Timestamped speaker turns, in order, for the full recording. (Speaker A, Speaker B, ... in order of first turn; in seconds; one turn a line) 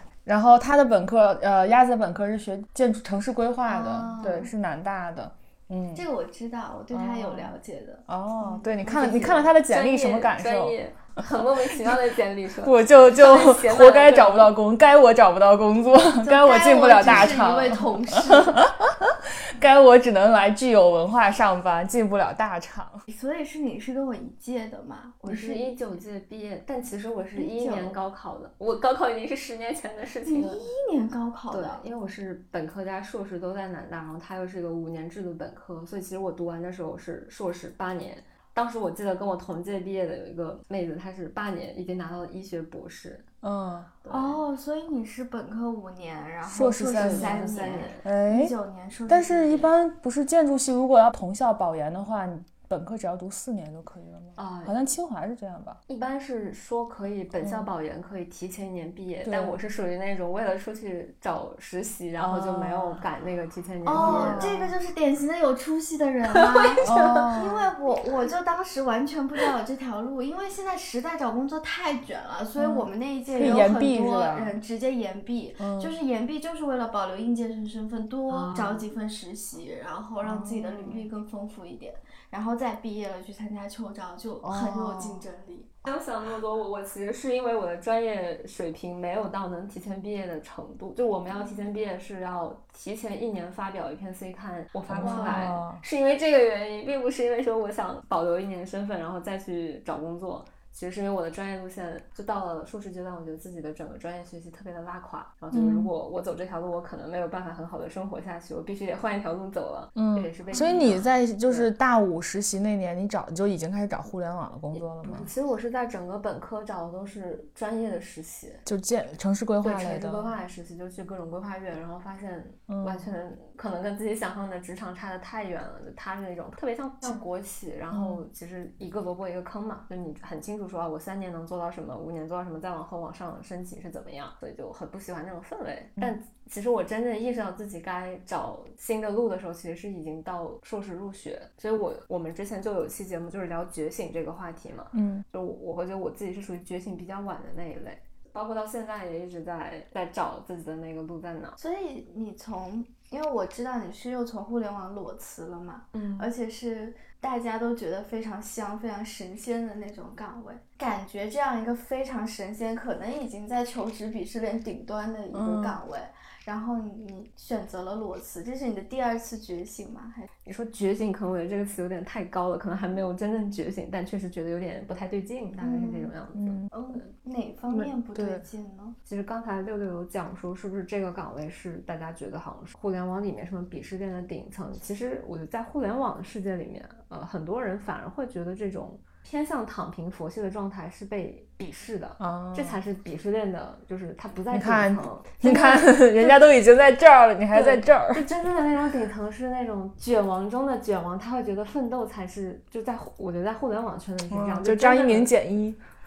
Speaker A: 0.3-6.0
Speaker B: 3.7-4.5
Speaker B: 6.0-9.6
Speaker A: 6.9-7.5
Speaker A: 8.1-10.8
Speaker C: 9.6-14.5
Speaker A: 11.4-12.0
Speaker A: 12.6-23.0
Speaker B: 16.2-18.6
Speaker C: 17.0-17.3
Speaker B: 23.1-25.7
Speaker C: 25.2-30.7
Speaker B: 27.4-28.0
Speaker B: 30.3-31.8
Speaker C: 31.5-43.3
Speaker A: 43.4-43.9
Speaker C: 44.0-44.4
Speaker B: 44.1-49.7
Speaker A: 46.5-47.4
Speaker C: 46.9-48.0
Speaker A: 48.0-48.5
Speaker A: 49.1-55.8
Speaker C: 54.4-54.8
Speaker C: 55.9-64.5
Speaker A: 57.4-57.7
Speaker A: 59.2-59.6
Speaker A: 62.2-63.0
Speaker B: 63.9-85.7
Speaker A: 64.0-64.7
Speaker C: 66.3-67.3
Speaker A: 66.8-67.7
Speaker A: 72.6-74.6
Speaker A: 75.6-76.0
Speaker C: 78.3-78.9
Speaker A: 80.2-81.1
Speaker A: 84.4-85.2
Speaker C: 85.8-111.7
Speaker A: 94.9-95.8
Speaker B: 95.0-95.5
Speaker A: 105.5-105.9
Speaker A: 110.0-115.3
Speaker C: 114.7-118.7
Speaker A: 118.7-120.3
Speaker C: 119.6-151.6
Speaker A: 122.7-123.1
Speaker A: 127.9-128.2
Speaker A: 144.9-145.2
Speaker B: 151.6-170.3
Speaker C: 155.9-156.3
Speaker A: 165.3-165.8
Speaker C: 170.5-177.1
Speaker B: 175.6-176.1
Speaker A: 176.4-176.7
Speaker B: 176.7-179.0
Speaker A: 177.7-178.4
Speaker C: 179.1-195.8
Speaker A: 192.2-192.8
Speaker A: 194.5-198.3
Speaker B: 195.4-195.8
Speaker C: 197.5-205.3
Speaker A: 204.3-205.8